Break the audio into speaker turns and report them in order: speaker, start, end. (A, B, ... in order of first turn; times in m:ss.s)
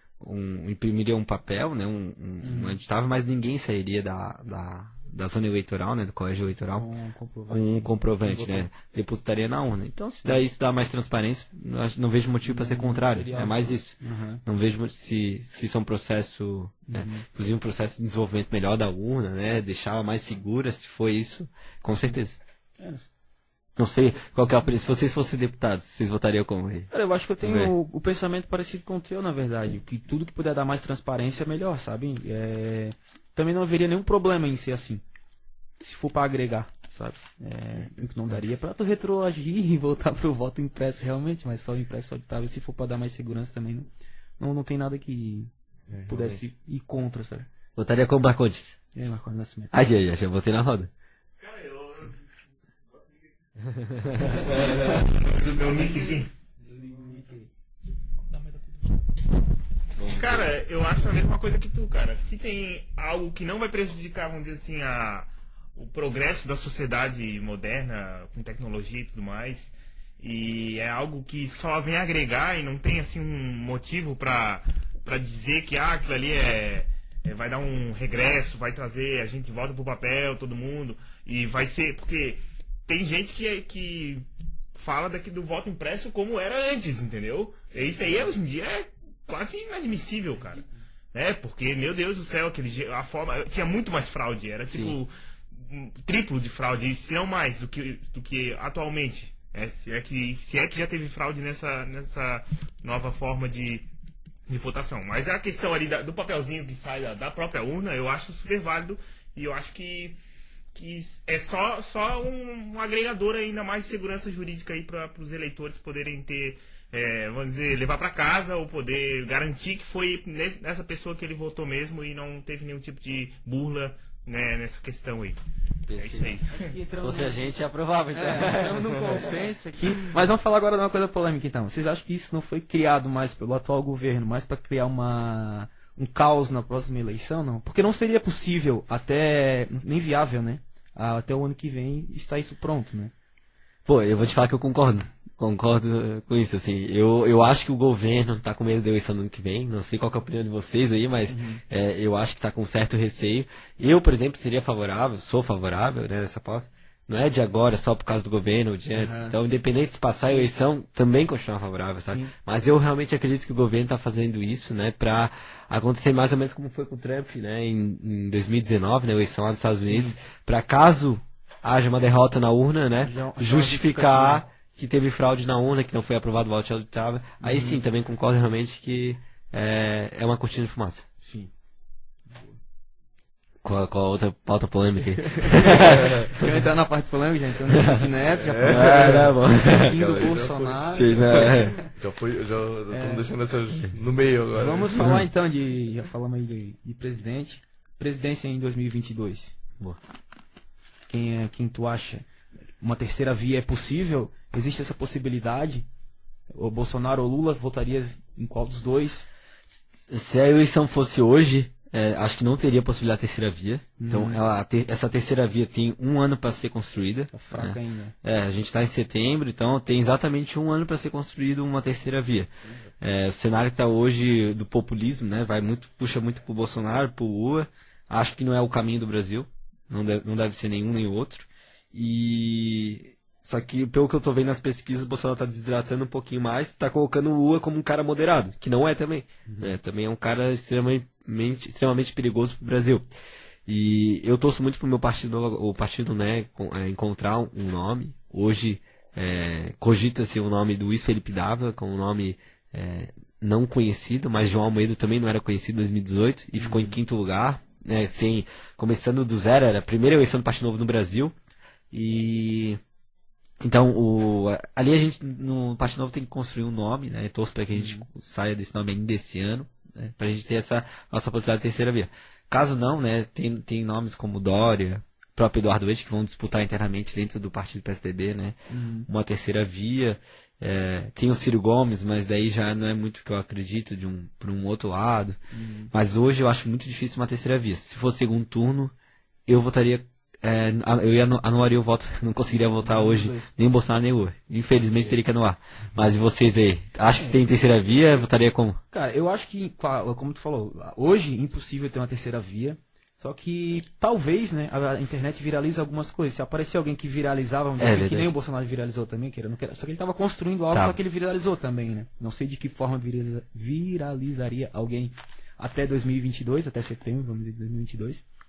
0:00.2-0:06.9 A
0:02.4-0:02.8 B
0:06.7-0:08.7 B
0:07.5-0:22.4 A
0:12.4-0:14.4 B
0:16.9-0:17.2 B
0:22.8-0:23.1 B
0:23.8-0:26.9 A
0:26.9-0:35.0 B
0:27.4-0:27.7 A
0:35.8-0:45.5 B
0:45.9-0:46.4 C
0:46.1-0:47.5 B
0:47.8-0:48.7 A
0:48.9-0:49.7 B
0:49.7-0:50.9 A
0:51.4-0:52.2 D
0:53.6-0:55.1 A
0:54.4-0:56.3 D
0:57.0-0:57.4 B
1:00.0-1:00.5 A
1:00.0-1:43.8 D
1:34.7-1:35.0 A
1:44.5-1:50.2 D
1:50.7-2:05.4 D
2:05.9-2:06.3 A
2:06.0-2:06.7 D
2:06.5-2:07.4 B
2:07.0-2:09.3 A
2:08.1-2:23.1 B
2:23.8-3:01.1 A
2:31.3-2:31.6 B
2:38.9-2:39.4 B
2:49.9-2:50.1 B
2:53.0-2:54.4 B
2:57.4-2:57.8 B
3:01.2-3:01.5 B
3:03.6-3:06.6 A
3:05.3-3:11.8 B
3:07.7-3:08.1 A
3:08.3-3:15.0 C
3:08.6-3:10.2 A
3:10.9-3:11.8 A
3:12.9-3:13.2 B
3:14.6-3:19.5 B
3:15.0-3:15.2 A
3:21.1-3:22.2 B
3:22.8-3:25.8 B
3:26.5-3:29.3 B
3:29.7-3:42.5 A
3:34.0-3:34.4 B
3:37.3-3:38.1 B
3:43.0-4:03.0 A
3:59.5-3:59.7 B
4:03.6-4:21.3 A
4:16.6-4:17.0 B
4:21.9-4:22.8 A
4:23.6-4:45.4 A
4:27.7-4:28.1 B
4:38.7-4:39.1 B
4:45.5-4:45.9 B
4:45.9-4:48.9 A
4:49.5-4:58.8 A
4:52.8-4:53.5 B
4:58.9-5:18.2 B
5:07.8-5:08.3 A
5:10.7-5:11.0 A